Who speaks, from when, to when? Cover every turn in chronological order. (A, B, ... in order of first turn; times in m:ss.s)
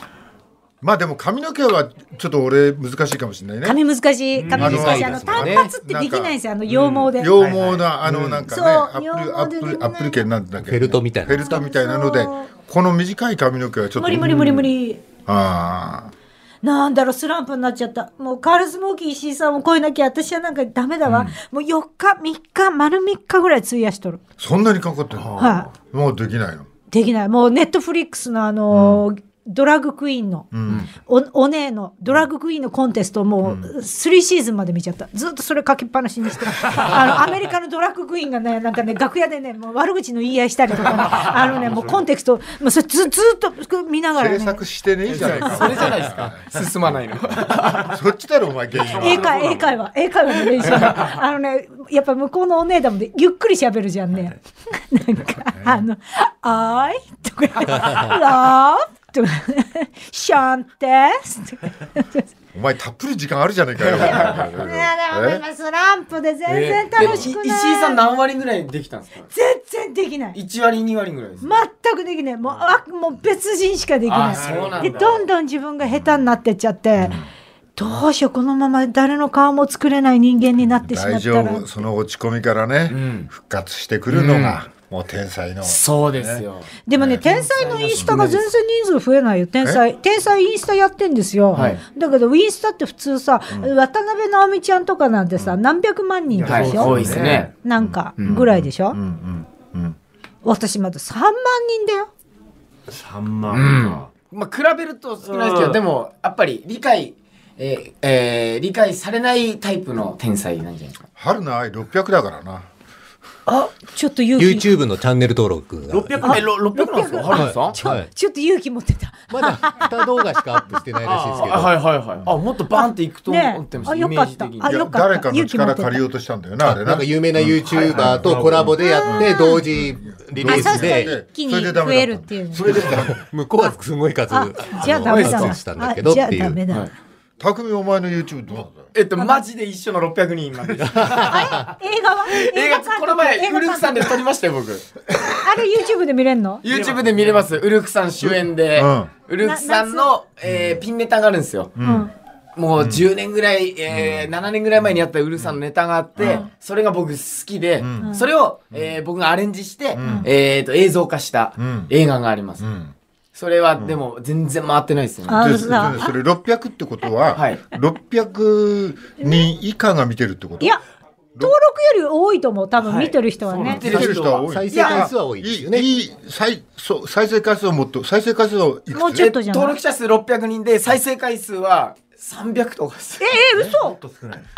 0:00.8-0:03.8 A
0:03.6-0:07.5 B
0:04.4-0:04.8 C
0:04.5-0:06.4 A
0:04.5-0:05.7 D
0:06.7-0:08.4 C
0:07.2-0:14.7 A
0:08.5-0:10.3 B
0:10.6-0:11.6 D
0:11.4-0:12.5 B
0:14.0-0:15.0 B
0:15.3-0:16.1 A
0:16.6-0:24.2 B
0:21.1-0:21.4 A
0:24.4-0:26.7 A
0:25.4-0:25.7 B
0:26.9-0:44.6 B
0:28.7-0:29.0 A
0:30.5-0:30.9 A
0:33.4-0:33.7 A
0:41.5-0:41.9 C
0:44.2-0:46.5 A
0:45.1-0:48.0 E
0:47.7-0:49.4 A
0:48.8-0:49.7 C
0:48.9-1:02.3 B
0:50.6-0:51.1 E
0:55.6-0:55.9 A
1:02.5-1:05.4 A
1:03.8-1:04.5 E
1:04.0-1:08.0 B
1:06.5-1:09.3 E
1:09.3-1:10.4 B
1:10.4-1:11.5 E
1:11.4-1:17.2 B
1:14.1-1:15.3 E
1:14.4-1:14.8 A
1:17.0-1:17.3 A
1:17.8-1:21.6 B
1:20.8-1:27.2 A
1:22.9-1:23.3 E
1:24.1-1:24.6 E
1:25.6-1:28.4 E
1:26.8-1:39.0 B
1:31.5-1:31.8 A
1:31.5-1:31.8 E
1:36.4-1:37.5 C
1:36.4-1:37.5 E
1:37.0-1:40.0 A
1:40.4-1:42.1 B
1:42.9-1:44.1 C
1:43.5-1:51.0 E
1:45.2-1:45.8 C
1:51.2-1:52.7 A
1:53.5-1:54.7 B
1:54.4-1:56.4 D
1:55.9-1:56.4 C
1:56.2-1:57.8 E
1:56.2-2:00.4 B
1:57.3-1:58.1 D
1:59.3-2:01.8 D
2:01.0-2:04.8 E
2:02.7-2:06.0 B
2:04.6-2:13.2 A
2:06.6-2:11.1 D
2:07.7-2:08.7 C
2:08.8-2:09.6 B
2:10.4-2:12.9 B
2:12.7-2:16.6 D
2:14.3-2:16.9 B
2:15.1-2:15.6 E
2:17.4-2:18.9 A
2:18.9-2:21.6 E
2:19.2-2:19.4 B
2:21.0-2:21.4 D
2:21.2-2:24.2 B
2:22.3-2:24.9 E
2:25.3-2:26.6 B
2:26.6-2:31.8 E
2:26.7-2:27.5 C
2:28.2-2:29.1 A
2:29.4-2:30.1 B
2:30.5-2:30.8 A
2:31.8-2:32.1 A
2:31.8-2:32.1 B
2:32.6-2:42.7 E
2:32.8-2:33.0 A
2:33.9-2:34.2 A
2:36.2-2:36.5 A
2:37.8-2:38.1 A
2:40.0-2:40.3 A
2:40.0-2:40.3 B
2:41.6-2:41.9 A
2:42.6-2:42.9 A
2:43.4-2:46.0 E
2:45.3-2:46.1 B
2:45.3-2:50.8 A
2:47.3-2:47.6 E
2:49.2-2:49.5 B
2:51.4-2:53.8 B
2:52.8-2:54.1 C
2:53.6-2:55.1 E
2:53.7-2:59.3 A
2:53.9-2:55.9 D
2:58.9-2:59.8 B
2:59.1-3:03.4 E
3:03.2-3:04.0 B
3:03.6-3:04.5 C